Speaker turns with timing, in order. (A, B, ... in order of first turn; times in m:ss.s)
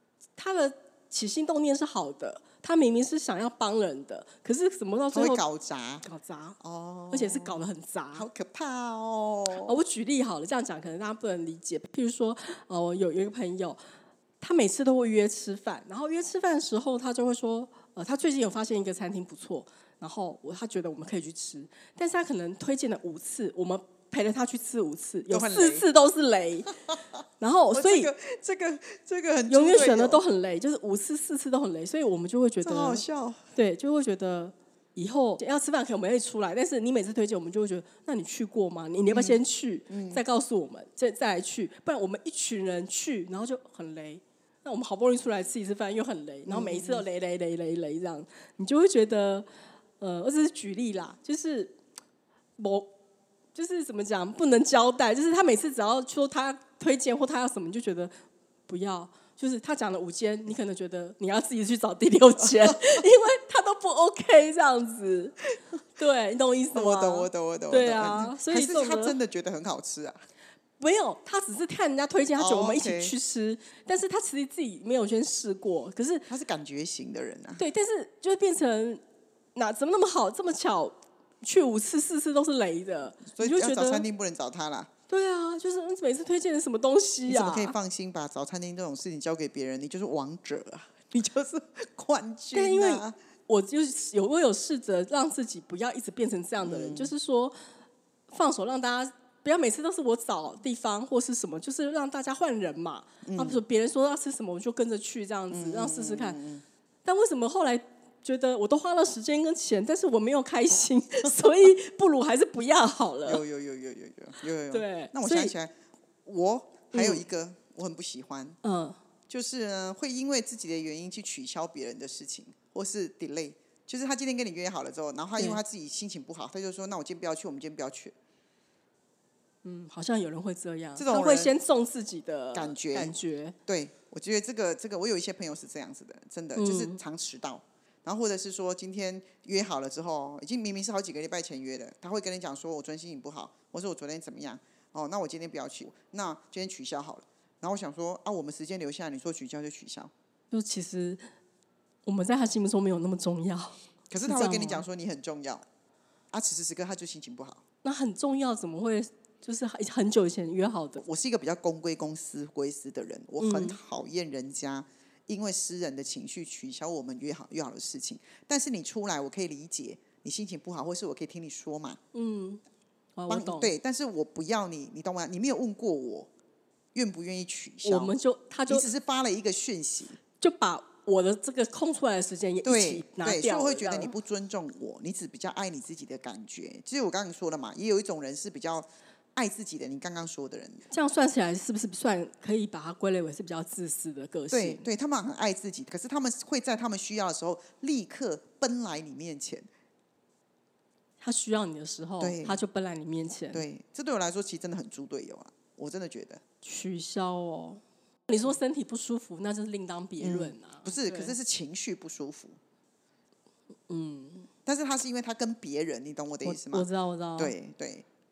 0:00.4-0:05.4 A
0:05.1-0:06.0 B
0:06.0-0:06.6 A
0:06.6-0:07.6 B
0:07.1-0:08.3 A
0:08.1-0:09.8 B
0:09.5-0:13.8 A
0:14.4-0:26.7 A
0:25.3-0:25.8 B
0:27.4-0:28.1 A
0:27.7-0:30.2 B
0:29.5-0:33.0 A
0:32.6-0:33.4 B
0:33.5-0:49.5 A
0:39.1-0:40.2 B
0:46.5-0:47.0 B
0:50.0-0:51.8 A
0:52.6-0:52.9 A
0:53.5-0:58.1 A
0:58.7-1:05.4 A
1:02.5-1:02.7 B
1:06.0-1:09.2 A
1:06.7-1:10.2 B
1:10.8-1:16.3 A
1:12.4-1:13.1 B
1:16.3-1:17.6 B
1:17.6-1:19.0 A
1:19.5-1:24.0 A
1:23.3-1:24.9 B
1:25.1-1:27.7 A
1:27.3-1:33.1 B
1:32.5-1:37.6 A
1:36.6-1:37.1 B
1:38.3-1:46.4 A
1:43.2-1:43.6 B
1:45.5-1:46.6 B
1:47.0-1:53.4 A
1:53.2-1:55.7 B
1:54.7-1:55.5 A
1:56.2-1:58.6 B
1:56.9-1:57.2 A
1:58.6-1:59.0 A
1:59.3-2:08.1 B
2:09.6-2:13.6 A
2:11.0-2:11.5 B
2:12.5-2:13.1 B
2:13.7-2:30.1 B
2:16.6-2:17.0 A
2:30.5-2:31.2 A
2:32.0-2:34.8 A
2:34.1-2:35.6 B
2:36.3-2:37.6 B
2:37.8-2:41.0 A
2:41.0-2:52.0 B
2:43.4-2:43.8 A
2:52.1-2:52.6 A
2:53.2-2:53.7 A
2:53.3-2:56.3 B
2:56.9-2:58.1 B
2:57.8-2:58.8 A
2:58.7-3:00.2 B
3:00.4-3:04.1 A
3:02.6-3:10.8 B
3:10.9-3:14.8 A
3:14.5-3:19.7 B
3:21.2-3:23.6 A
3:22.2-3:22.6 B
3:23.5-3:26.4 B
3:26.6-3:31.4 A
3:30.2-3:32.6 B
3:33.9-3:34.5 A
3:34.6-3:38.0 B
3:36.4-3:37.5 A